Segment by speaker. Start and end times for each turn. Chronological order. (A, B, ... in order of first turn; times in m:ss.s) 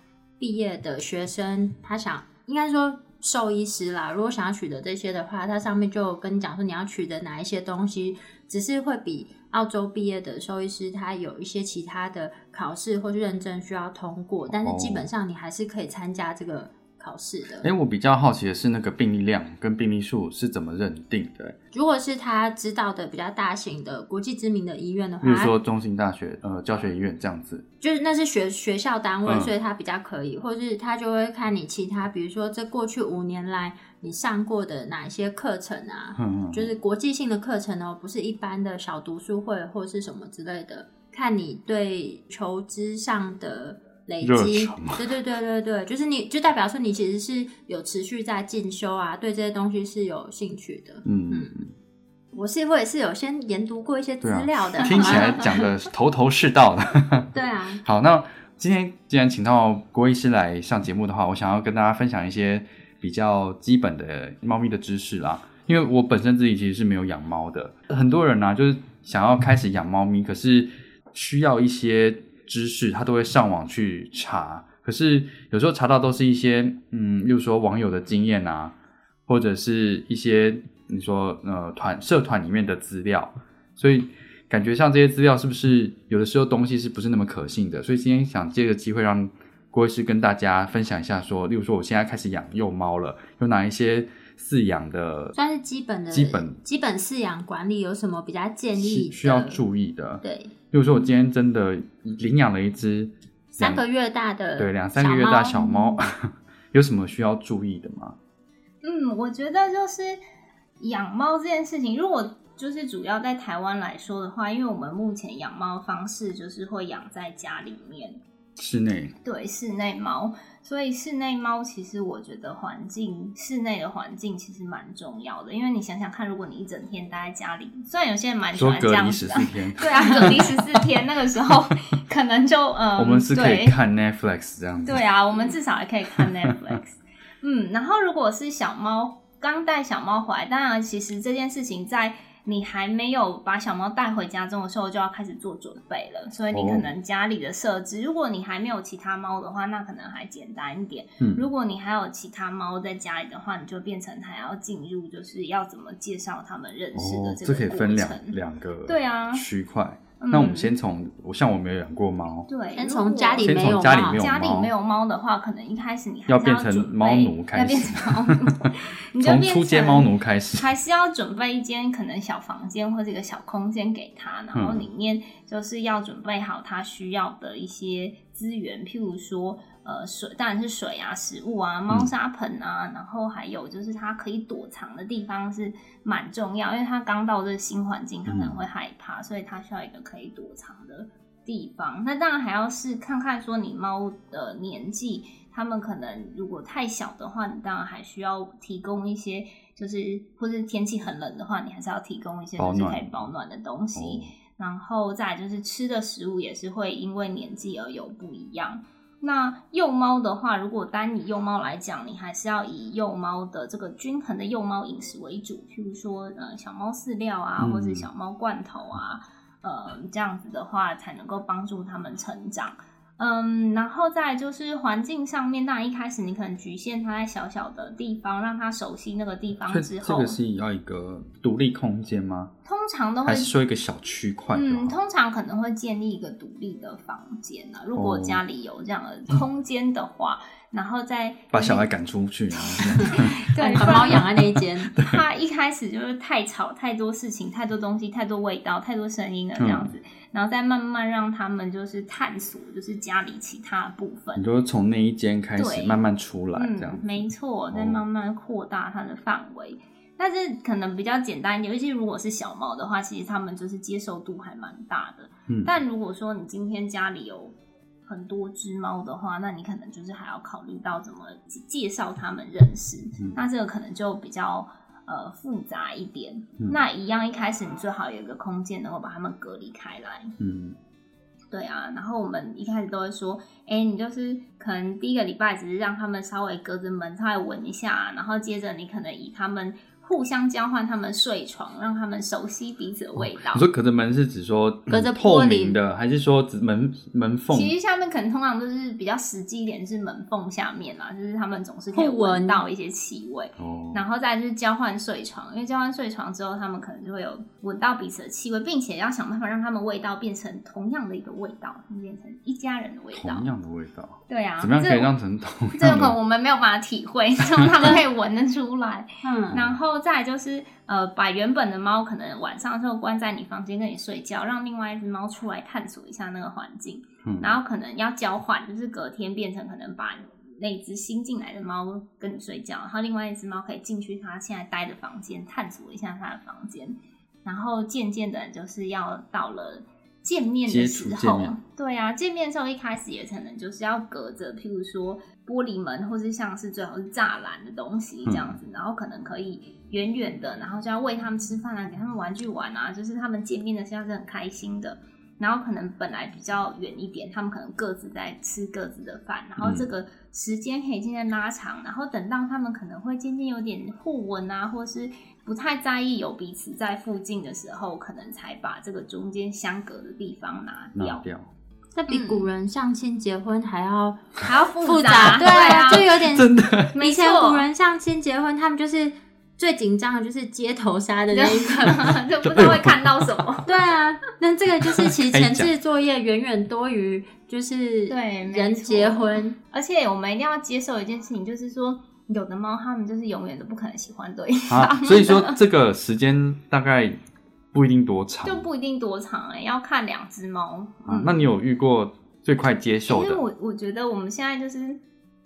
0:00.4-0:17.7 A
0:14.5-0:15.0 B
0:17.6-0:21.6 B
0:21.7-0:25.5 A
0:25.2-0:27.6 B
0:27.8-0:51.5 A
0:29.2-0:29.5 B
0:36.2-0:36.7 B
0:44.2-0:45.0 B
0:51.1-0:51.7 B
0:52.3-0:55.6 A
0:54.2-0:57.3 B
0:54.8-0:55.6 C
0:57.3-0:57.8 A
0:57.8-1:18.7 B
1:19.3-1:35.3 B
1:35.3-1:39.6 A
1:36.1-1:36.6 B
1:38.8-1:43.8 B
1:40.2-1:40.5 A
1:43.6-1:45.7 A
1:44.6-1:48.2 B
1:48.8-1:50.2 C
1:50.8-1:58.2 C
1:58.6-1:59.1 B
1:59.2-2:13.8 C
2:08.5-2:10.8 B
2:13.0-2:15.1 B
2:14.8-2:39.4 C
2:16.1-2:16.8 B
2:26.5-2:26.9 B
2:31.2-2:31.5 B
2:36.9-2:42.5 B
2:40.2-2:40.7 C
2:42.5-3:50.4 C
2:42.8-2:44.3 A
2:43.4-2:44.7 B
2:46.3-2:50.7 B
2:54.5-2:54.9 B
3:08.3-3:08.6 B
3:22.6-3:23.3 B
3:23.9-3:24.3 B
3:37.6-3:38.1 B
3:49.7-3:52.5 B
3:52.7-3:53.5 C
3:53.2-3:55.0 B
3:54.5-4:01.9 C
3:58.0-3:58.4 B
4:01.5-4:03.4 B
4:02.6-4:04.4 C
4:03.0-4:04.9 A
4:04.1-4:05.2 B
4:05.0-4:14.5 C
4:09.6-4:09.9 B
4:14.4-4:18.0 B
4:15.6-4:16.0 C
4:16.6-4:27.6 C
4:25.5-4:25.7 B
4:28.1-4:40.3 C
4:40.4-4:40.8 B
4:41.5-4:53.6 C
4:53.2-4:57.7 B
4:54.9-4:55.8 A
4:57.5-5:13.5 C
5:01.9-5:02.6 A
5:03.6-5:04.0 B
5:13.1-5:16.2 B
5:14.3-5:15.1 C
5:15.8-6:11.2 C
5:19.2-5:19.6 A
5:27.2-5:27.5 B
5:40.7-5:41.6 B
5:48.3-5:48.6 B
5:59.6-5:59.9 B
6:10.9-6:11.5 B
6:12.0-6:22.2 A
6:12.1-6:12.5 C
6:14.4-6:16.2 C
6:16.3-6:16.9 B
6:16.9-6:17.7 C
6:21.3-6:23.7 C
6:22.4-6:23.1 B
6:23.7-6:29.6 A
6:25.0-6:25.7 B
6:28.1-6:35.6 C
6:34.7-6:37.2 B
6:37.7-6:38.7 B
6:38.4-6:41.4 C
6:41.1-6:43.4 B
6:43.1-6:45.0 C